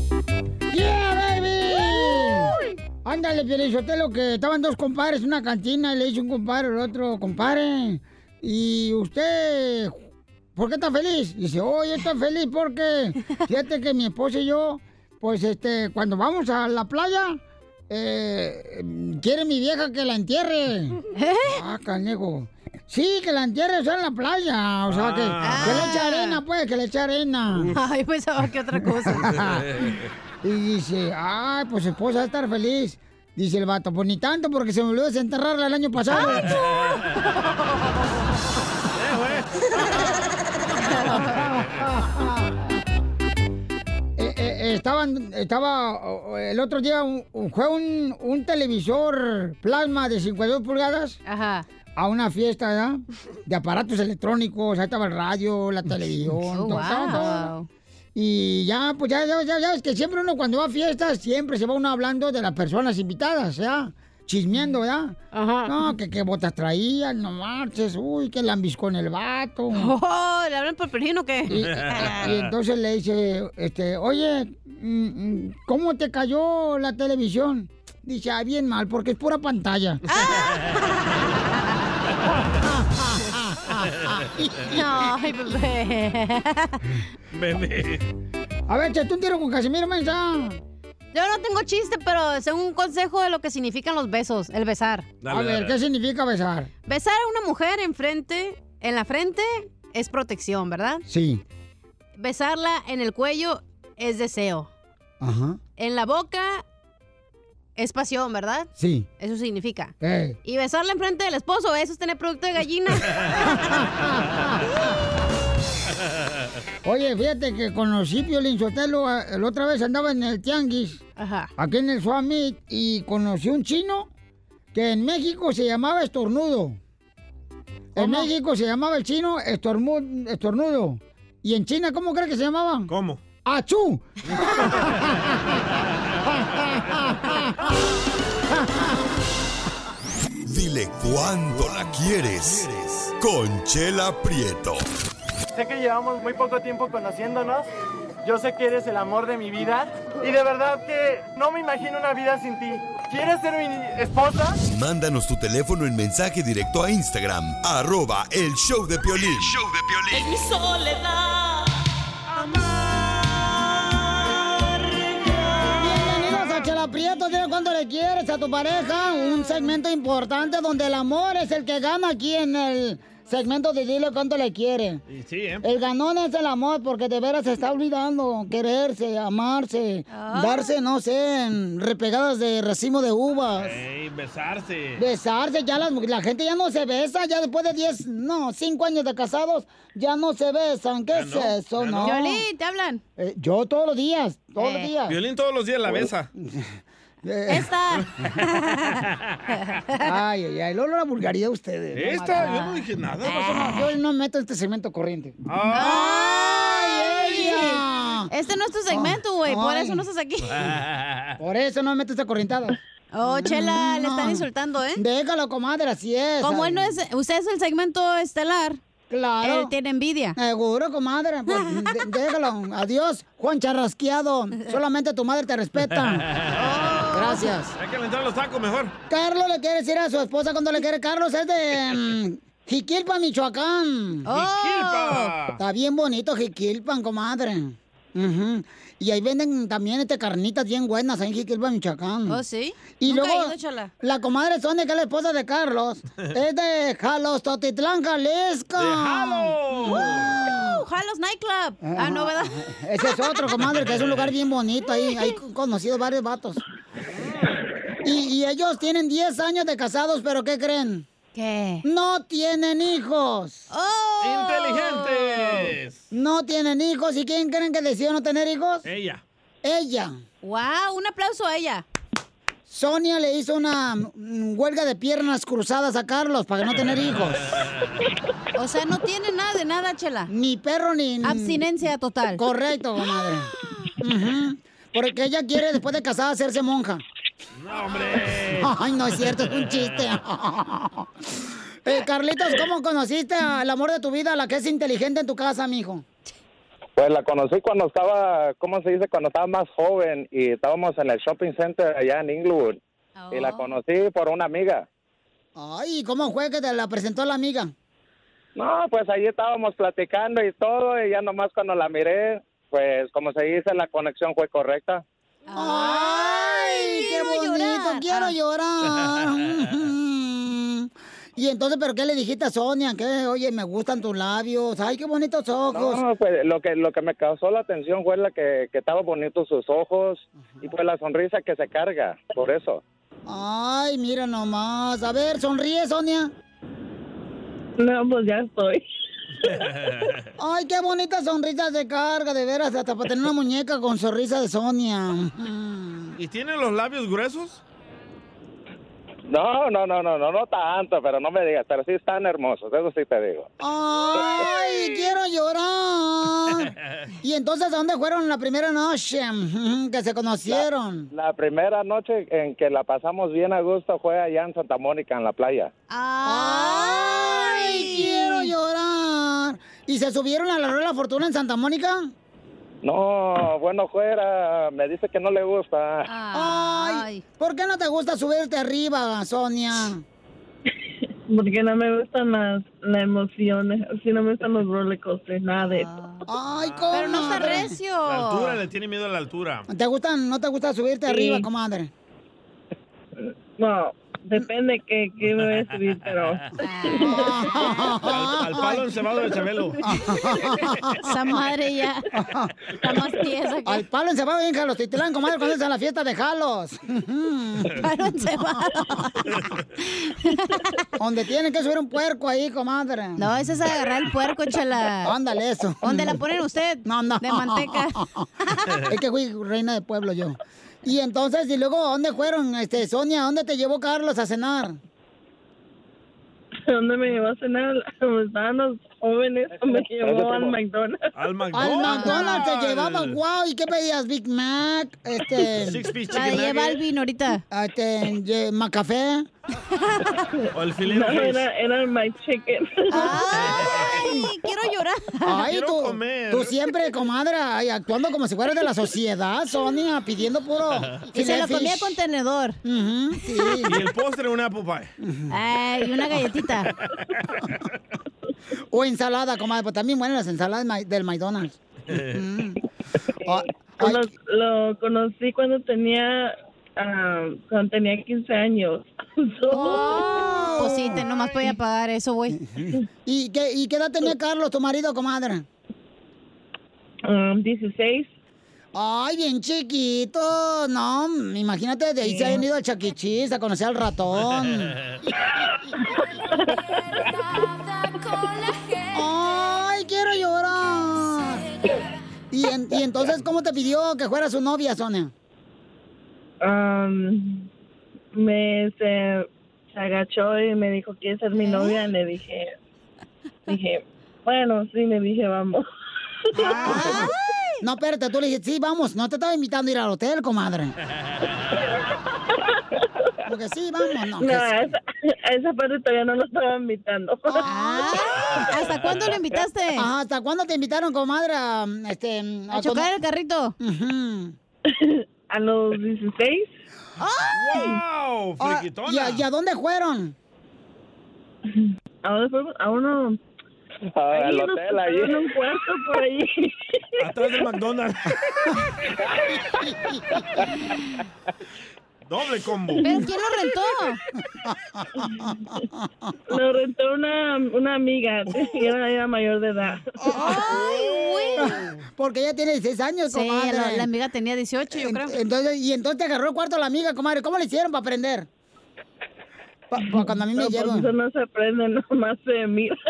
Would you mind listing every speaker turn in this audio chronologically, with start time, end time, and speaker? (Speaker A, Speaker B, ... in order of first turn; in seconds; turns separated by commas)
Speaker A: 0.7-10.0, Speaker A: 10.5-21.0, Speaker B: 21.1-21.6, Speaker A: 21.5-27.7, Speaker C: 24.9-25.9, Speaker B: 25.4-26.4, Speaker B: 27.7-29.4, Speaker A: 29.1-29.7, Speaker C: 29.7-30.1, Speaker A: 30.4-36.5, Speaker B: 36.2-36.6, Speaker C: 38.9-39.7, Speaker A: 41.1-42.7, Speaker A: 44.2-51.2, Speaker B: 51.2-51.6, Speaker A: 52.0-57.5, Speaker B: 56.5-57.7, Speaker A: 58.1-69.9, Speaker B: 65.3-65.9, Speaker B: 69.7-72.2, Speaker A: 71.5-80.0, Speaker B: 80.1-81.4, Speaker A: 82.5-84.8, Speaker B: 84.7-86.8, Speaker C: 87.3-88.0, Speaker A: 88.7-90.6, Speaker B: 91.1-95.1, Speaker C: 95.2-95.8, Speaker A: 95.3-96.7, Speaker B: 96.8-101.0, Speaker A: 101.0-101.4, Speaker B: 102.2-104.7, Speaker A: 105.2-105.6, Speaker B: 105.8-106.6, Speaker B: 107.8-113.6, Speaker A: 108.8-109.1, Speaker A: 110.0-110.4, Speaker A: 113.5-114.7, Speaker A: 116.8-121.0, Speaker B: 121.2-121.5, Speaker A: 121.5-124.1, Speaker A: 124.7-126.8, Speaker A: 127.9-132.9, Speaker B: 128.0-128.3, Speaker C: 132.9-133.2, Speaker A: 133.4-135.6, Speaker A: 136.2-137.7, Speaker A: 138.5-138.9, Speaker D: 140.4-144.8, Speaker C: 141.6-141.8, Speaker E: 145.5-147.7, Speaker E: 148.2-154.6, Speaker D: 154.6-160.3, Speaker A: 165.8-175.0, Speaker C: 175.1-175.6, Speaker A: 175.6-183.8, Speaker B: 180.1-180.7, Speaker C: 183.6-185.0, Speaker A: 185.0-192.4, Speaker C: 191.1-192.1, Speaker B: 192.0-193.0, Speaker A: 193.2-195.2, Speaker B: 194.6-194.9, Speaker C: 195.1-196.3, Speaker A: 195.9-197.7, Speaker B: 197.5-199.0, Speaker B: 199.6-199.9, Speaker A: 200.0-202.6, Speaker C: 201.9-203.5, Speaker B: 202.4-203.8, Speaker A: 203.3-205.4, Speaker C: 205.5-206.0, Speaker B: 205.7-210.6, Speaker A: 205.9-208.3, Speaker A: 208.9-210.0, Speaker C: 210.5-211.4, Speaker A: 211.4-216.9, Speaker B: 213.1-215.0, Speaker B: 216.4-218.8, Speaker A: 219.1-219.7, Speaker B: 219.4-220.4, Speaker A: 220.3-226.2, Speaker B: 221.5-221.9, Speaker C: 226.2-226.7, Speaker B: 226.5-227.5, Speaker A: 227.1-227.7, Speaker C: 227.8-228.9, Speaker A: 229.1-234.2, Speaker B: 234.3-235.3, Speaker C: 234.3-235.6, Speaker A: 235.6-242.4, Speaker B: 242.3-243.9, Speaker A: 243.0-250.8, Speaker C: 248.8-250.4, Speaker B: 249.9-252.5, Speaker A: 251.8-256.6, Speaker B: 253.1-253.4, Speaker C: 253.7-254.3, Speaker B: 255.0-255.3, Speaker C: 257.1-257.6, Speaker A: 258.0-261.1, Speaker B: 261.3-261.8, Speaker A: 261.8-263.7, Speaker B: 263.7-265.7, Speaker C: 264.2-266.0, Speaker A: 266.1-268.9, Speaker C: 268.8-269.2, Speaker A: 269.6-270.1, Speaker B: 270.4-271.8, Speaker A: 272.7-277.5, Speaker C: 277.5-277.9, Speaker B: 278.5-280.3, Speaker A: 280.3-281.6, Speaker B: 281.2-282.4, Speaker A: 282.3-287.0, Speaker C: 287.5-288.7, Speaker A: 288.5-296.0, Speaker C: 289.5-289.8, Speaker F: 297.0-302.8, Speaker B: 303.2-303.7, Speaker F: 303.3-304.8, Speaker A: 305.6-307.7, Speaker F: 308.6-315.0, Speaker B: 315.5-318.3, Speaker A: 315.5-326.0, Speaker F: 325.7-332.8, Speaker A: 333.2-336.3, Speaker G: 337.8-338.8, Speaker C: 339.4-340.3, Speaker A: 340.4-346.1, Speaker C: 346.2-347.6, Speaker F: 349.3-353.5, Speaker A: 353.6-361.1, Speaker F: 360.5-365.7, Speaker B: 365.9-368.5, Speaker A: 366.2-372.1, Speaker F: 372.8-376.1, Speaker B: 376.1-377.2, Speaker A: 376.3-380.0, Speaker G: 381.3-385.9, Speaker B: 385.7-386.2, Speaker A: 386.3-387.8, Speaker C: 386.6-387.1, Speaker B: 386.9-388.6, Speaker C: 388.1-389.6, Speaker A: 389.7-391.9, Speaker G: 391.1-391.4, Speaker G: 393.2-397.4, Speaker B: 396.6-397.9, Speaker A: 397.0-398.9, Speaker C: 398.0-399.8, Speaker A: 399.8-401.3, Speaker B: 401.0-402.1, Speaker A: 402.1-402.5, Speaker B: 402.8-403.8, Speaker A: 403.6-407.9, Speaker B: 407.8-409.2, Speaker B: 409.8-410.8, Speaker A: 411.0-413.2, Speaker B: 413.2-415.1, Speaker A: 415.0-416.2, Speaker B: 415.8-418.8, Speaker A: 416.8-418.3, Speaker A: 418.8-424.8, Speaker G: 426.7-431.1, Speaker F: 429.8-430.5, Speaker C: 431.1-433.2, Speaker A: 431.5-435.9, Speaker B: 431.8-432.4, Speaker C: 435.5-436.8, Speaker B: 436.1-437.4, Speaker A: 437.5-439.3, Speaker B: 439.7-440.2, Speaker G: 440.4-443.1, Speaker C: 440.5-441.4, Speaker B: 442.9-445.4, Speaker C: 443.3-443.9, Speaker A: 445.2-452.0, Speaker C: 445.4-446.5, Speaker B: 451.1-452.6, Speaker A: 452.6-453.8, Speaker C: 453.6-454.9, Speaker A: 455.0-455.3, Speaker B: 455.3-456.7, Speaker A: 458.7-461.6, Speaker C: 461.9-462.2, Speaker A: 462.1-462.6, Speaker A: 463.2-464.0, Speaker G: 463.3-470.2, Speaker A: 469.5-471.0, Speaker B: 470.5-472.4, Speaker A: 472.3-475.4, Speaker G: 477.1-478.1, Speaker A: 478.7-484.8, Speaker G: 482.0-482.4, Speaker G: 486.1-486.5, Speaker A: 488.9-491.5, Speaker A: 492.3-495.1, Speaker G: 496.4-497.5, Speaker G: 498.1-502.5, Speaker B: 501.4-501.8, Speaker G: 503.5-505.6, Speaker G: 506.4-507.0, Speaker B: 506.4-507.6, Speaker A: 506.4-510.7, Speaker G: 512.3-512.9, Speaker A: 513.2-514.5, Speaker G: 514.2-517.4, Speaker A: 517.4-517.9, Speaker B: 517.4-519.9, Speaker A: 519.8-522.9, Speaker B: 522.5-523.5, Speaker A: 523.6-524.3, Speaker G: 524.7-526.5, Speaker B: 527.0-527.7, Speaker C: 527.3-529.2, Speaker A: 528.4-530.1, Speaker G: 531.5-533.2, Speaker F: 534.0-535.2, Speaker G: 534.1-536.8, Speaker C: 537.0-538.4, Speaker C: 542.0-542.9, Speaker B: 542.8-544.0, Speaker A: 544.4-546.1, Speaker G: 545.0-545.3, Speaker G: 546.3-549.8, Speaker A: 550.0-550.7, Speaker B: 550.1-551.5, Speaker C: 551.0-551.3, Speaker A: 551.4-553.9, Speaker B: 553.1-555.2, Speaker A: 554.7-558.3, Speaker A: 559.7-560.9, Speaker G: 559.9-562.8